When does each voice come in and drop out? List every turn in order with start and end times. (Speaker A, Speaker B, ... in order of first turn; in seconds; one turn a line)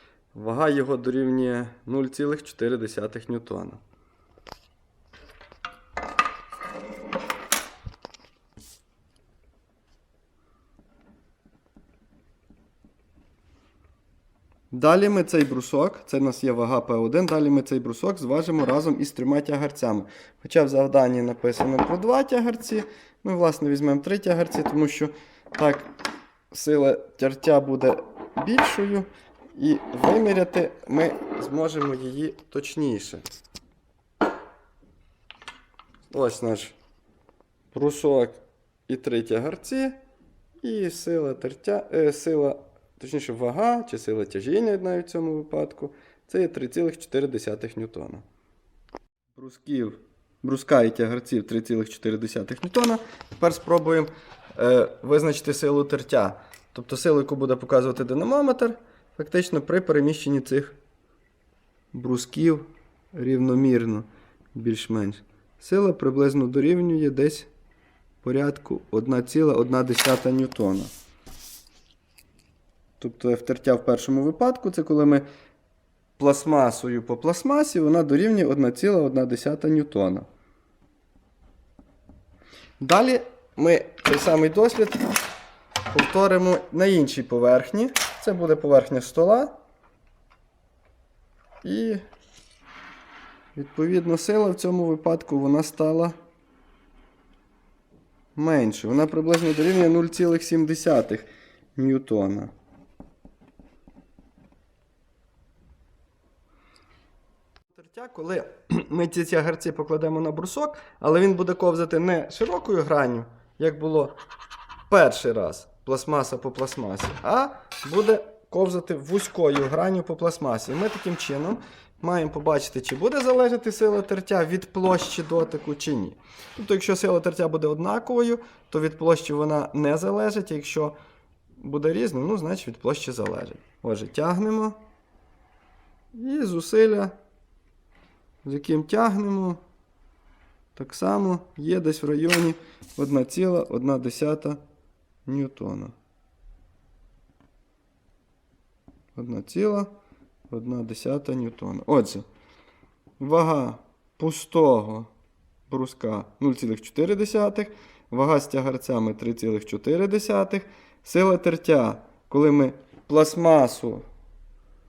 Speaker A: 0.3-3.8
Speaker A: 14.7-25.9
Speaker A: 26.5-33.3
Speaker A: 36.1-36.8
Speaker A: 37.7-40.0
Speaker A: 40.6-48.2
Speaker A: 49.3-60.8
Speaker A: 61.9-67.5
Speaker A: 68.2-70.9
Speaker A: 73.0-75.2
Speaker A: 76.2-80.3
Speaker A: 82.8-85.1
Speaker A: 85.9-89.5
Speaker A: 91.6-92.0
Speaker A: 93.5-96.2
Speaker A: 98.3-102.5
Speaker A: 107.7-114.2
Speaker A: 114.9-130.9
Speaker A: 131.6-134.8
Speaker A: 136.1-137.2
Speaker A: 138.4-139.6
Speaker A: 140.7-144.6
Speaker A: 145.2-145.9
Speaker A: 149.1-149.9
Speaker A: 150.5-152.2
Speaker A: 153.2-155.1
Speaker A: 155.7-164.1